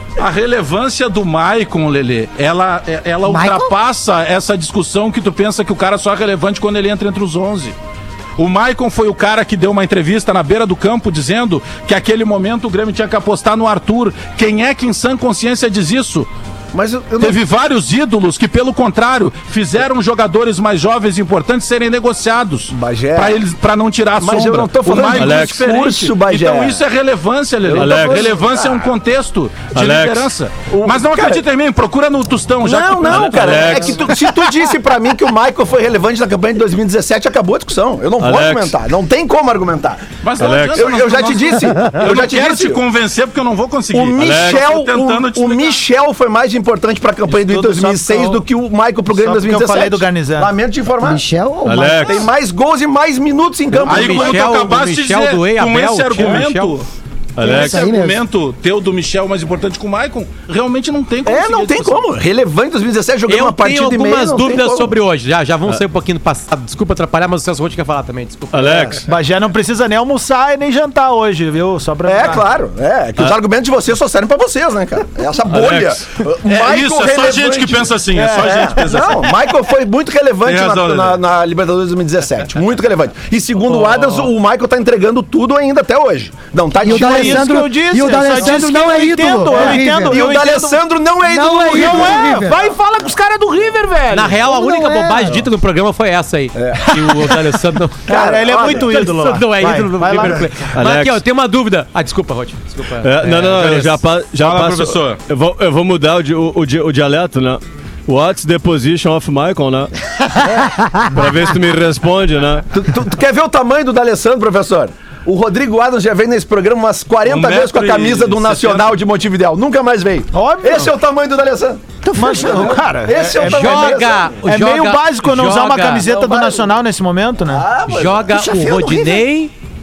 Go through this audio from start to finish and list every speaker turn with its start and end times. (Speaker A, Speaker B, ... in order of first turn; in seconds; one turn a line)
Speaker A: 0.2-7.7
Speaker B: 3.2-3.7
Speaker A: 8.4-16.3
Speaker C: 16.7-17.4
Speaker A: 17.2-34.2
Speaker C: 22.7-23.4
Speaker C: 24.2-26.8
Speaker D: 25.1-25.6
Speaker C: 27.6-28.9
Speaker D: 27.7-28.3
Speaker D: 29.7-30.3
Speaker C: 30.7-31.4
Speaker C: 32.6-42.8
Speaker D: 33.1-34.0
Speaker D: 38.2-38.7
Speaker A: 40.2-45.8
Speaker D: 40.4-40.8
Speaker C: 43.9-51.2
Speaker D: 44.2-44.6
Speaker E: 47.3-48.4
Speaker E: 49.1-50.5
Speaker B: 51.0-52.2
Speaker D: 51.6-52.2
Speaker C: 51.9-54.4
Speaker F: 53.7-56.7
Speaker A: 53.9-56.9
Speaker D: 57.4-57.9
Speaker A: 57.4-62.1
Speaker B: 57.4-58.2
Speaker C: 61.2-64.9
Speaker F: 63.3-69.0
Speaker D: 68.5-69.0
Speaker C: 68.6-69.0
Speaker E: 69.1-72.4
Speaker C: 72.0-87.5
Speaker D: 75.5-76.0
Speaker A: 76.4-79.3
Speaker A: 80.4-81.2
Speaker B: 86.8-90.2
Speaker E: 86.8-90.8
Speaker C: 89.5-92.5
Speaker B: 91.2-92.6
Speaker E: 91.6-94.4
Speaker F: 94.1-104.0
Speaker B: 94.4-95.4
Speaker C: 96.5-97.1
Speaker C: 98.1-99.0
Speaker E: 98.1-100.6
Speaker D: 100.7-101.2
Speaker D: 103.0-109.9
Speaker A: 104.4-105.2
Speaker D: 111.1-112.6
Speaker C: 112.7-124.3
Speaker A: 117.2-119.0
Speaker E: 120.3-120.9
Speaker E: 122.1-127.6
Speaker F: 123.4-126.0
Speaker C: 126.0-126.8
Speaker C: 127.5-129.2
Speaker F: 127.9-129.5